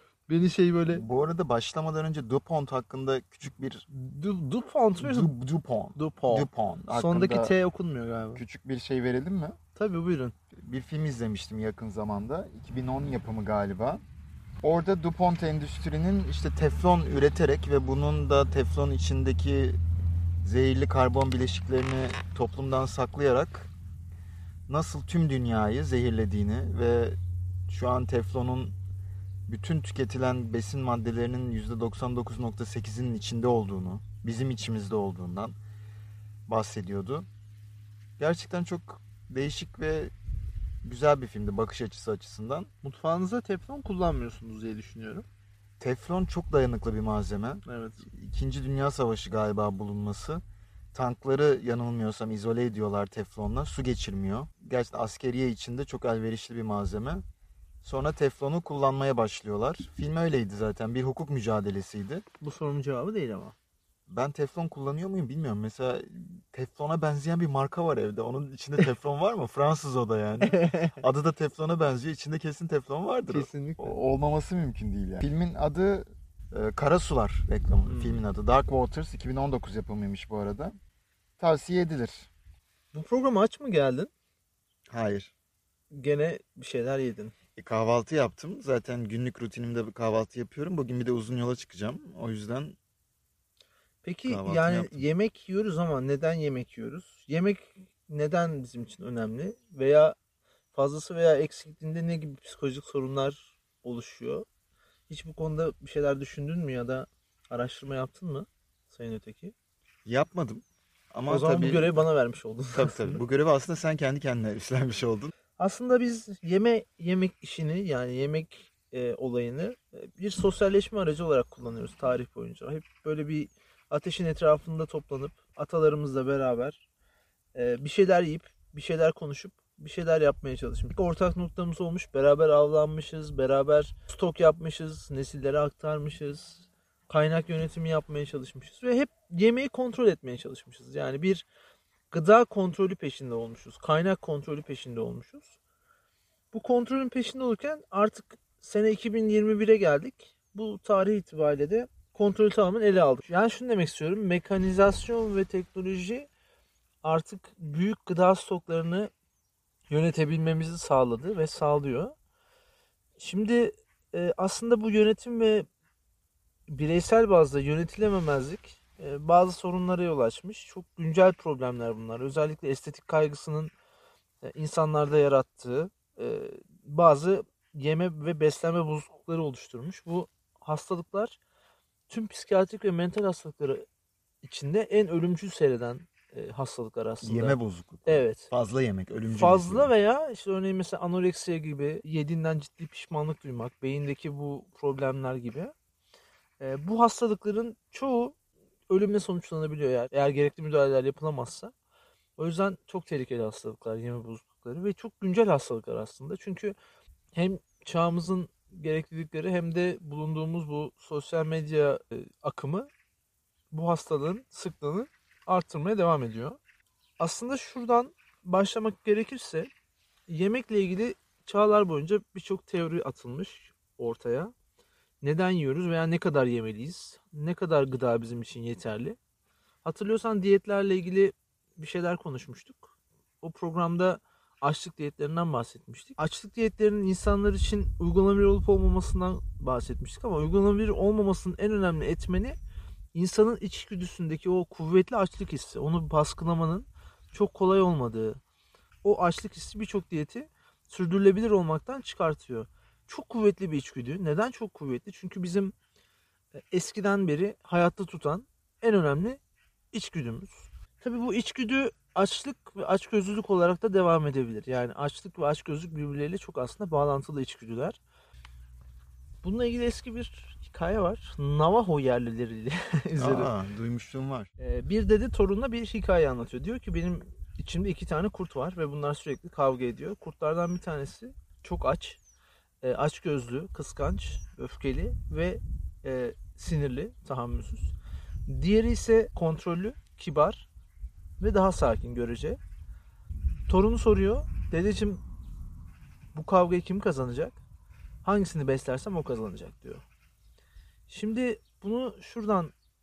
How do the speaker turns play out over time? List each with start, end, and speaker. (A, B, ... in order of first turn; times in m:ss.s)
0:00.3-0:01.0 A
0:00.9-0:03.9 B
0:03.9-0:05.3 A
0:05.0-0:07.5 B
0:06.0-0:08.4 A
0:08.4-0:09.6 B
0:09.8-0:10.4 A
0:10.6-0:14.0 B
0:14.6-0:19.8 B
0:20.4-0:23.7 B
0:24.7-0:27.2 B
0:27.7-0:28.8 B
0:29.5-0:35.6 B
0:36.5-0:37.3 B
0:38.2-0:40.1 B
0:40.8-0:42.7 B
0:42.8-0:45.3 A
0:45.8-0:50.4 B
0:47.6-0:48.1 A
0:50.9-0:57.2 B
0:57.8-1:02.2 B
1:02.4-1:03.6 A
1:04.1-1:20.8 B
1:10.4-1:11.0 A
1:13.3-1:14.0 A
1:17.8-1:18.2 A
1:21.4-1:22.3 B
1:22.9-1:24.1 A
1:24.9-1:25.3 B
1:25.9-1:27.4 A
1:27.6-1:32.8 B
1:34.0-1:40.2 A
1:34.3-1:35.0 B
1:40.7-1:44.5 A
1:45.1-1:49.5 A
1:50.1-1:51.9 B
1:51.3-1:53.2 A
1:52.7-1:55.3 B
1:55.6-2:06.8 A
2:07.6-2:21.5 A
2:22.1-2:25.6 A
2:26.5-2:36.3 A
2:37.0-2:39.1 A
2:39.9-2:42.1 A
2:43.2-2:45.7 A
2:46.7-2:53.7 A
2:54.4-3:01.4 A
3:02.1-3:03.9 A
3:04.4-3:08.5 A
3:07.2-3:09.9 B
3:09.3-3:15.7 A
3:16.6-3:18.4 A
3:18.9-3:21.7 A
3:22.4-3:26.8 A
3:27.3-3:32.9 A
3:33.7-3:36.6 A
3:37.2-3:39.7 A
3:40.3-3:44.5 A
3:45.2-3:49.2 A
3:49.8-4:02.6 A
4:03.1-4:08.4 A
4:09.0-4:15.8 A
4:16.7-4:19.4 A
4:19.9-4:28.0 A
4:29.4-4:33.5 A
4:33.2-4:34.5 B
4:34.6-4:42.2 A
4:42.8-4:47.9 A
4:48.5-4:50.7 A
4:51.4-4:52.6 A
4:53.7-4:55.2 A
4:56.3-4:57.6 A
4:58.2-5:00.0 A
5:01.1-5:02.7 A